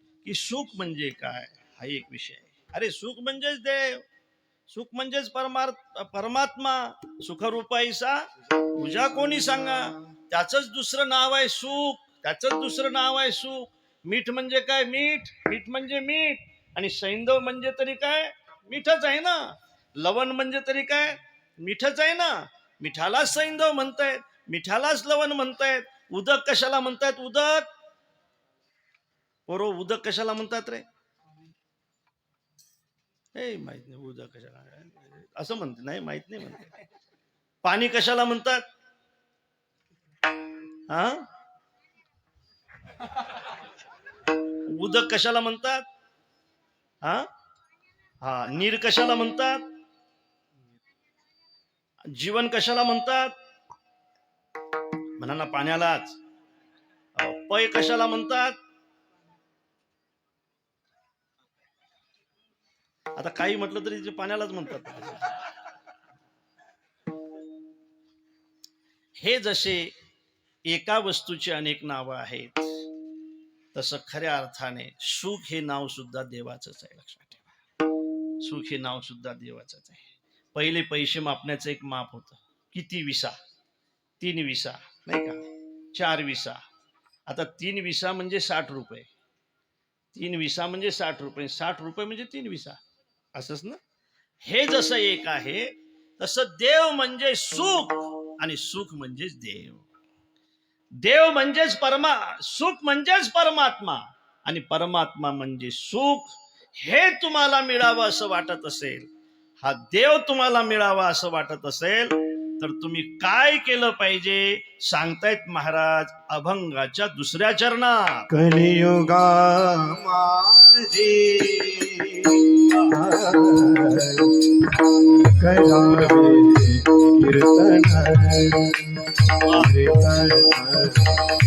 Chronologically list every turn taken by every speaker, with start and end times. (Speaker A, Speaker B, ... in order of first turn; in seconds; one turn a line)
Speaker A: 0.2-4.0
Speaker A: 4.7-27.7
Speaker A: 29.5-30.9
Speaker A: 33.4-36.7
Speaker A: 37.6-38.6
Speaker A: 40.9-41.2
Speaker A: 44.5-45.9
Speaker A: 48.2-49.6
Speaker A: 52.1-53.4
Speaker A: 55.2-56.2
Speaker A: 57.2-58.6
Speaker A: 63.2-65.3
Speaker A: 69.2-69.9
Speaker A: 70.7-72.7
Speaker A: 73.7-77.5
Speaker A: 78.4-83.4
Speaker A: 84.2-86.6
Speaker A: 87.3-89.1
Speaker A: 90.1-92.8
Speaker A: 93.3-93.8
Speaker A: 94.4-99.8
Speaker A: 101.0-109.1
Speaker A: 109.6-118.3
Speaker B: 118.5-124.5
Speaker A: 122.7-123.0
Speaker B: 125.2-128.1
Speaker A: 129.4-129.7
Speaker B: 129.8-130.8